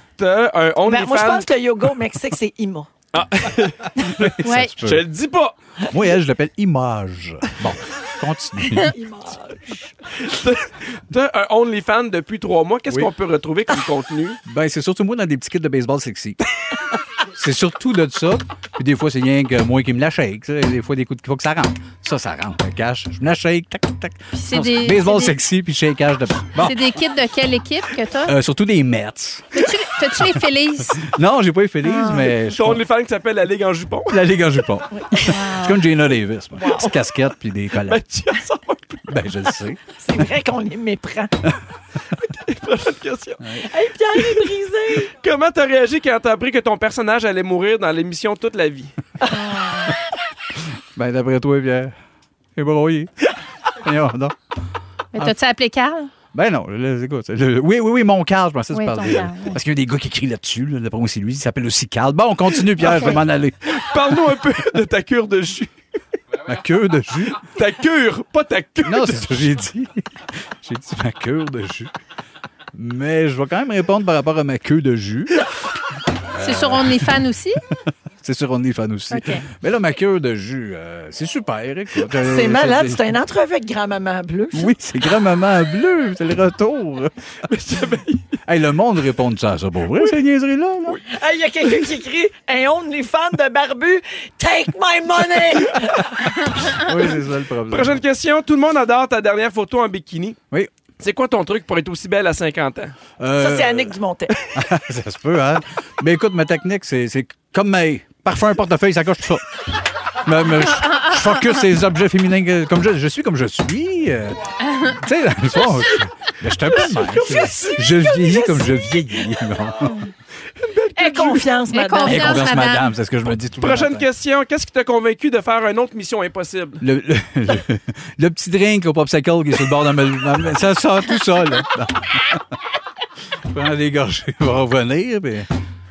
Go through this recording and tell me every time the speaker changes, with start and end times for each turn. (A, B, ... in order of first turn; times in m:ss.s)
0:00.2-0:01.5 A
0:00.8-0:02.9 B
0:03.1-0:05.5 A
0:04.0-0:05.1 C
0:04.4-0:04.7 D
0:05.9-0:09.0 C
0:08.8-0:09.9 B
0:10.2-0:14.4 A
0:14.4-0:16.4 C
0:17.3-0:26.9 C
0:24.3-0:25.4 D
0:26.6-0:28.3 D
0:28.2-0:29.6 C
0:29.6-0:31.0 D
0:31.0-0:32.8 C
0:31.8-0:32.3 D
0:32.5-0:34.2 A
0:34.1-0:38.0 C
0:35.2-0:35.8 D
0:36.6-0:37.0 B
0:37.8-0:39.2 A
0:39.1-0:39.8 C
0:40.0-0:41.3 B
0:42.2-0:43.4 A
0:43.6-0:45.1 B
0:44.2-0:44.4 A
0:45.2-0:48.9 A
0:49.3-0:49.9 D
0:50.9-0:51.9 C
0:52.6-0:54.4 C
0:55.1-0:56.1 D
0:56.3-1:03.7 C
0:58.7-0:59.6 D
1:02.8-1:03.2 D
1:03.7-1:05.7 A
1:06.4-1:07.4 C
1:07.5-1:09.3 A
1:08.8-1:10.0 C
1:10.6-1:11.9 C
1:12.7-1:15.4 C
1:16.3-1:17.2 C
1:16.4-1:17.6 D
1:18.2-1:23.1 C
1:19.1-1:19.4 D
1:22.2-1:24.7 B
1:24.5-1:27.1 C
1:27.5-1:28.2 A
1:28.4-1:31.0 C
1:31.1-1:36.1 B
1:36.7-1:38.0 C
1:37.7-1:40.4 A
1:41.0-1:42.9 A
1:43.2-1:43.9 C
1:43.4-1:44.3 B
1:44.5-1:49.4 C
1:50.2-1:59.9 C
1:54.7-1:54.9 D
1:56.8-1:57.8 A
1:57.8-1:58.7 B
2:00.6-2:01.5 A
2:01.0-2:02.5 B
2:01.7-2:02.9 D
2:02.0-2:04.1 C
2:03.6-2:06.8 A
2:06.8-2:12.4 C
2:13.5-2:15.5 C